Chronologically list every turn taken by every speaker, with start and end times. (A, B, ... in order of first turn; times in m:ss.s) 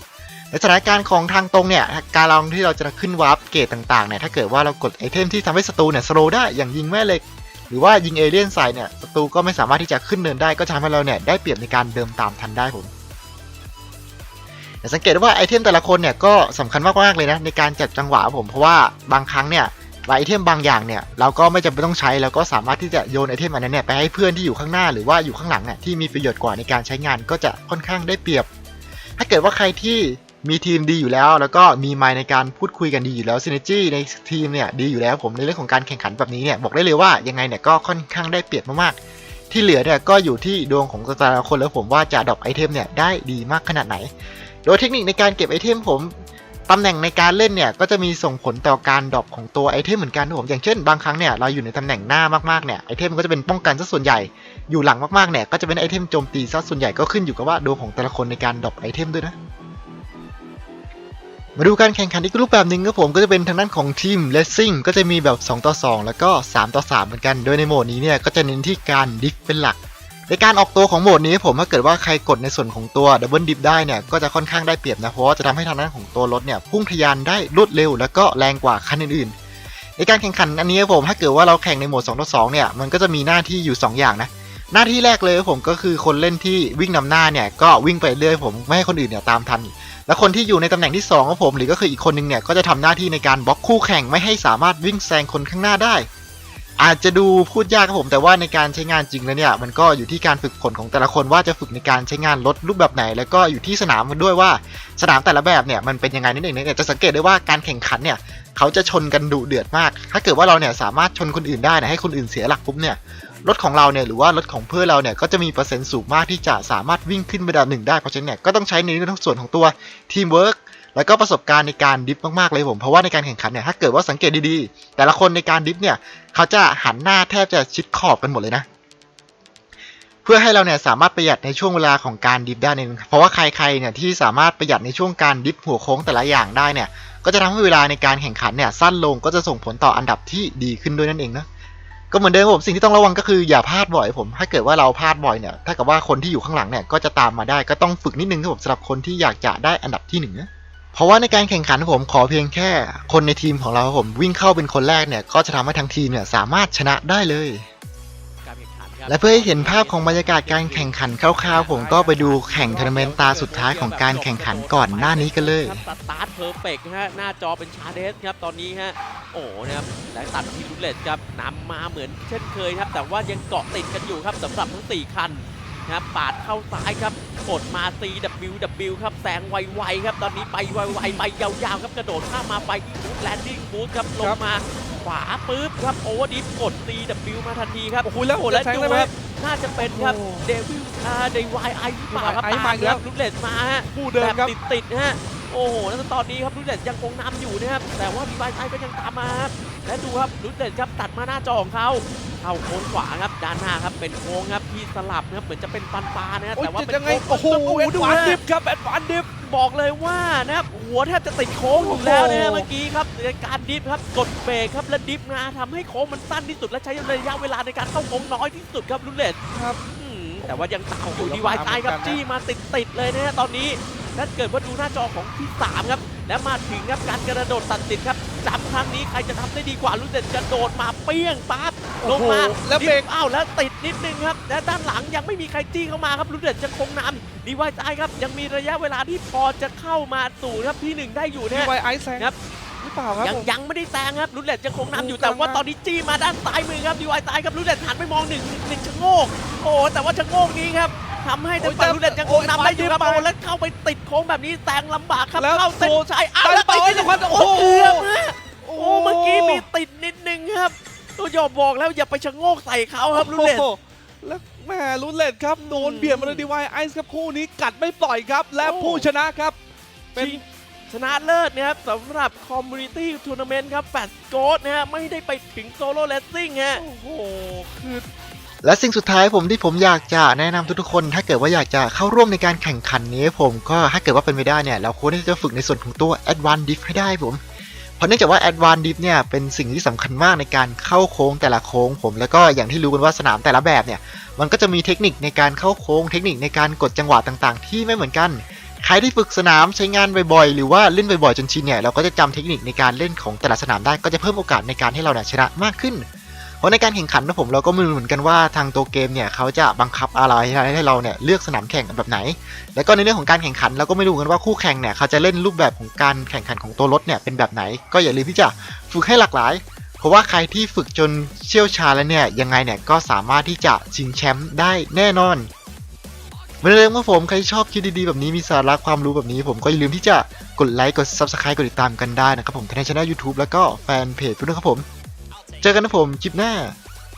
0:00.5-0:12.9 A
0:14.8-0:28.5 A
0:29.2-0:39.0 A
0:39.5-0:44.1 A
0:44.6-0:46.2 A
0:46.7-0:59.4 A
1:01.6-1:19.3 A
1:20.0-1:36.1 A
1:36.8-2:08.6 A
2:10.2-2:21.5 A
2:22.1-2:37.7 A
2:38.4-3:28.4 B
2:39.1-2:45.8 A
2:41.4-2:43.1 C
3:00.9-3:01.2 C
3:08.0-3:09.1 C
3:09.8-3:10.5 C
3:12.1-3:13.0 C
3:13.9-3:14.5 C
3:26.6-3:29.3 C
3:29.4-3:39.4 B
3:31.7-3:32.7 C
3:39.5-3:39.8 C
3:39.9-4:02.4 B
3:40.4-3:42.2 C
3:52.0-3:53.1 C
4:01.5-4:03.5 C
4:03.2-4:23.7 B
4:04.9-4:05.6 C
4:11.6-4:13.3 C
4:15.4-4:18.1 C
4:18.6-4:19.6 C
4:23.2-4:29.6 C
4:25.6-4:26.5 B
4:28.6-4:29.1 B
4:30.1-4:30.4 C
4:30.2-4:36.8 B
4:36.7-4:38.1 C
4:38.6-4:47.4 A
4:48.0-5:06.1 A
5:06.6-5:25.5 A
5:26.6-5:34.9 A
5:35.6-5:36.8 A